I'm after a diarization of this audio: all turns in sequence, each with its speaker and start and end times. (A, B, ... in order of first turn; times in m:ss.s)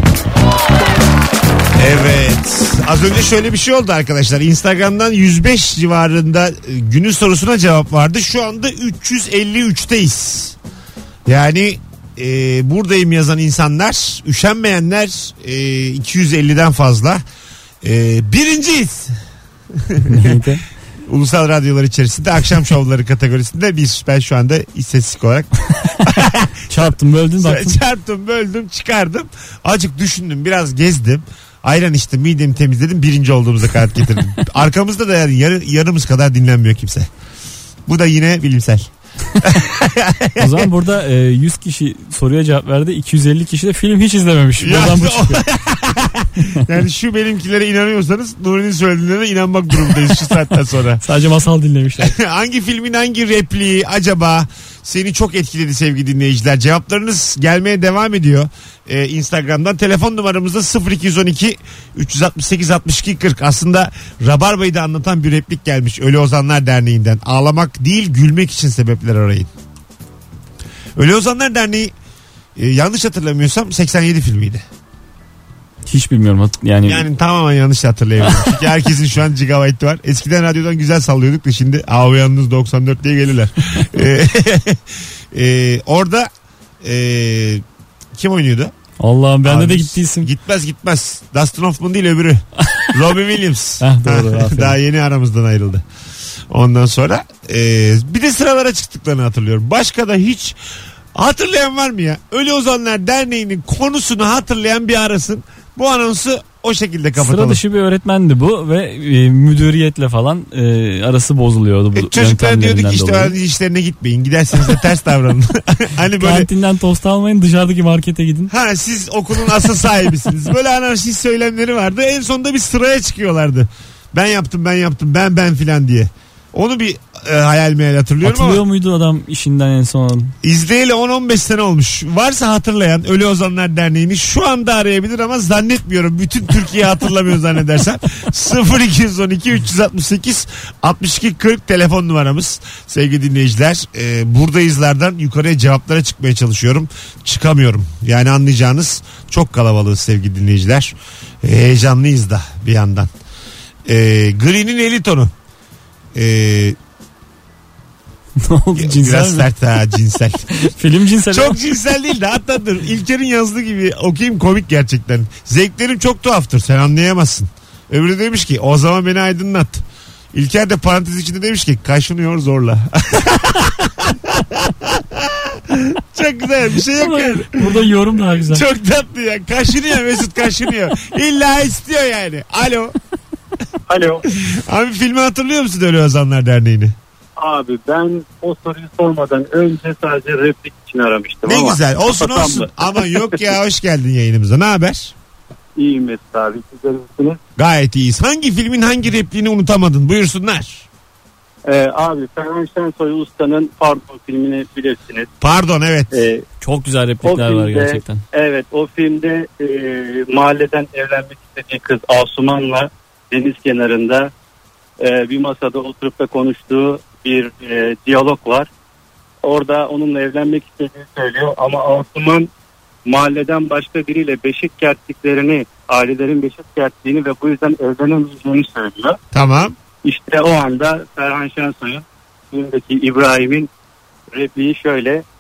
0:01.8-0:10.6 A
0:11.3-0:17.2 A
0:17.8-0:19.2 A
0:19.7-0:20.4 A
0:20.1-0:20.6 B
0:21.1-0:37.1 A
0:26.7-0:27.8 B
0:37.9-0:38.9 A
0:39.4-0:40.7 A
0:40.4-0:45.4 B
0:44.6-0:51.0 A
0:51.0-0:52.2 B
0:52.0-1:09.5 A
1:11.0-1:11.9 A
1:12.6-1:14.6 A
1:15.9-1:17.1 B
1:16.8-1:26.3 A
1:26.8-1:27.6 A
1:28.2-1:28.7 A
1:29.0-1:30.3 B
1:29.4-1:35.8 A
1:33.8-1:34.8 B
1:36.5-1:40.6 A
1:41.2-1:47.6 A
1:47.2-1:53.4 B
1:52.0-1:56.5 A
1:56.2-1:58.5 B
1:58.5-2:08.6 A
2:08.2-2:10.4 B
2:10.4-2:33.1 A
2:33.9-2:35.3 A
2:36.1-2:36.8 A
2:38.4-2:39.5 B
2:38.8-2:40.6 A
2:40.6-2:41.6 B
2:41.3-2:57.8 A
2:57.0-2:58.6 B
2:58.5-3:03.0 A
3:03.9-3:04.2 C
3:04.3-3:07.0 A
3:07.4-3:13.4 C
3:11.5-3:15.1 A
3:15.8-3:17.4 C
3:17.6-3:20.9 A
3:21.7-3:25.3 C
3:25.4-3:26.1 A
3:26.1-3:26.4 C
3:26.6-3:28.2 B
3:27.2-3:34.3 C
3:35.0-3:38.7 C
3:39.4-3:42.5 C
3:43.1-3:49.2 C
3:49.3-3:49.8 A
3:50.0-3:53.7 C
3:54.3-3:55.2 C